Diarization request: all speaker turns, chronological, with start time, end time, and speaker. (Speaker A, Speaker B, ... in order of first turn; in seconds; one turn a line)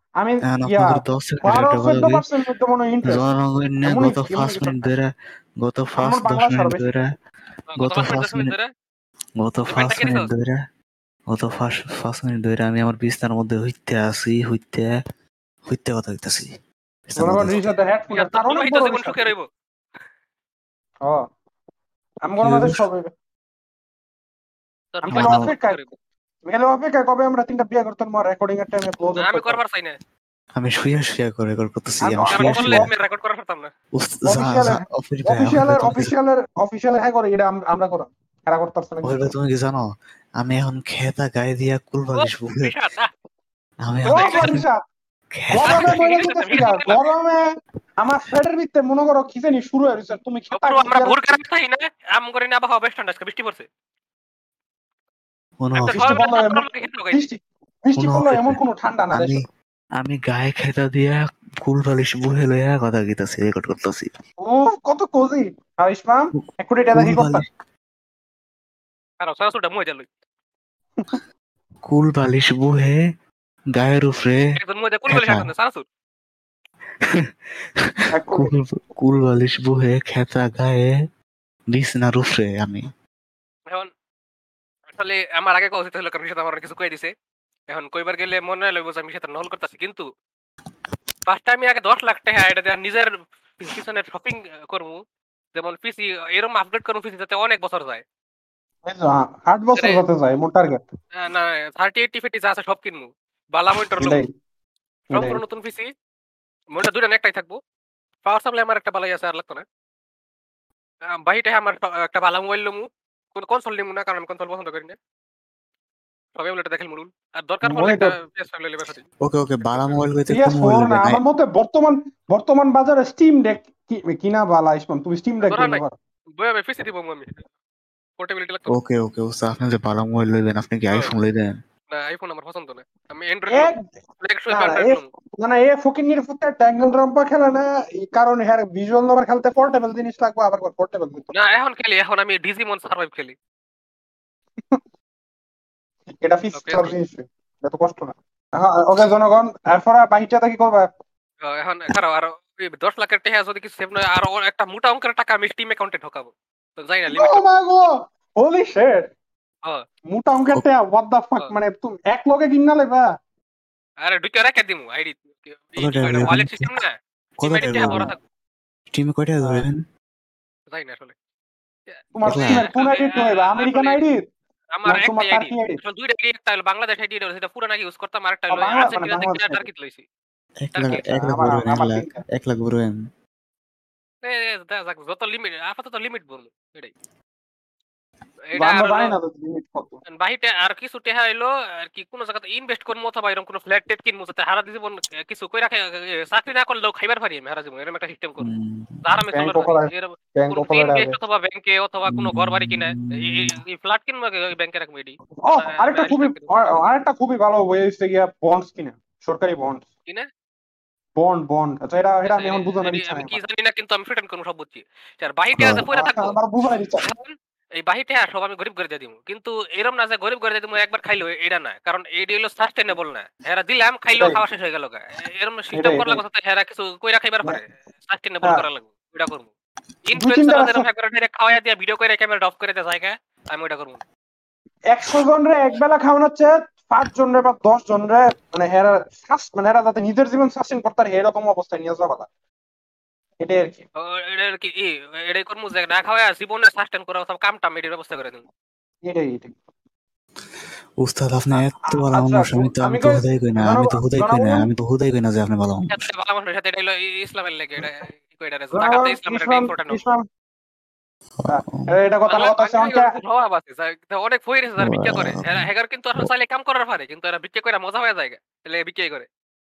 Speaker A: 0.2-3.2
Speaker B: 0.5-2.2
Speaker B: 3.0-5.1
Speaker A: 3.8-4.9
Speaker B: 5.6-7.1
Speaker A: 6.0-6.8
Speaker C: 7.7-8.7
Speaker B: 7.8-8.5
Speaker B: 9.4-10.6
Speaker C: 9.7-10.3
Speaker B: 11.3-14.9
Speaker B: 15.7-16.5
Speaker B: 17.1-17.6
Speaker A: 17.2-19.3
Speaker C: 18.1-19.4
Speaker A: 22.2-23.1
Speaker B: 22.4-22.8
Speaker C: 24.9-25.9
Speaker A: 25.1-25.8
Speaker B: 25.1-25.4
Speaker A: 26.5-29.6
Speaker C: 29.2-29.9
Speaker B: 30.6-32.9
Speaker A: 32.0-32.9
Speaker C: 32.3-33.7
Speaker B: 34.0-36.1
Speaker A: 34.3-39.3
Speaker B: 39.0-39.9
Speaker B: 40.4-42.7
Speaker C: 42.1-43.1
Speaker B: 43.8-44.6
Speaker A: 44.1-44.8
Speaker C: 44.1-44.6
Speaker B: 45.3-46.0
Speaker A: 45.5-47.4
Speaker C: 45.6-47.0
Speaker A: 48.0-51.2
Speaker C: 50.5-53.6
Speaker B: 55.6-56.2
Speaker C: 55.7-57.2
Speaker A: 56.0-59.4
Speaker B: 58.0-58.6
Speaker B: 59.1-59.4
Speaker B: 60.0-64.1
Speaker A: 64.4-67.4
Speaker B: 66.9-67.5
Speaker C: 69.2-70.0
Speaker B: 71.9-73.0
Speaker B: 73.7-74.5
Speaker C: 74.5-75.8
Speaker B: 75.1-75.5
Speaker B: 77.0-80.9
Speaker A: 78.1-78.5
Speaker B: 81.7-82.8
Speaker C: 84.9-87.1
Speaker C: 87.7-90.0
Speaker C: 91.2-95.0
Speaker C: 95.5-98.0
Speaker A: 98.9-100.8
Speaker C: 99.8-100.0
Speaker C: 101.2-104.2
Speaker A: 104.0-104.3
Speaker A: 105.1-105.4
Speaker C: 105.1-105.9
Speaker C: 106.7-107.6
Speaker C: 108.2-109.6
Speaker C: 111.2-115.0
Speaker C: 116.3-119.0
Speaker A: 117.6-118.1
Speaker B: 119.2-121.2
Speaker C: 119.7-120.0
Speaker A: 120.3-125.9
Speaker C: 125.4-125.8
Speaker C: 126.4-127.4
Speaker C: 128.2-128.7
Speaker B: 128.7-131.5
Speaker C: 131.9-135.1
Speaker A: 133.5-133.8
Speaker A: 134.5-141.4
Speaker C: 141.3-143.3
Speaker A: 146.2-150.9
Speaker C: 146.5-146.9
Speaker C: 151.4-157.4
Speaker A: 157.1-159.1
Speaker A: 160.1-163.1
Speaker C: 164.0-168.2
Speaker B: 165.8-166.8
Speaker B: 167.4-168.1
Speaker B: 168.9-169.8
Speaker A: 169.4-169.7
Speaker C: 170.7-171.1
Speaker C: 171.9-174.0
Speaker A: 172.1-174.2
Speaker B: 172.3-172.7
Speaker C: 174.7-180.0
Speaker A: 174.8-175.8
Speaker A: 178.5-179.6
Speaker B: 180.6-183.0
Speaker C: 180.7-181.0
Speaker A: 180.9-182.2
Speaker C: 184.2-186.9
Speaker C: 188.5-189.1
Speaker A: 188.5-190.0
Speaker C: 190.1-198.5
Speaker B: 198.4-199.0
Speaker C: 199.0-206.7
Speaker A: 199.3-201.2
Speaker B: 202.1-203.6
Speaker A: 205.4-209.8
Speaker A: 211.2-213.4
Speaker C: 212.3-216.4
Speaker B: 215.6-215.8
Speaker A: 215.9-217.0
Speaker C: 217.0-229.5
Speaker A: 225.7-226.2
Speaker C: 230.0-234.0
Speaker A: 230.2-230.8
Speaker A: 234.9-242.3
Speaker A: 243.4-243.8
Speaker C: 244.0-248.4
Speaker A: 249.1-249.5
Speaker B: 251.0-256.0
Speaker A: 251.8-254.7
Speaker C: 255.9-260.0
Speaker A: 258.7-260.2
Speaker B: 261.4-261.9
Speaker A: 261.5-263.1
Speaker C: 262.3-269.2
Speaker B: 264.8-265.6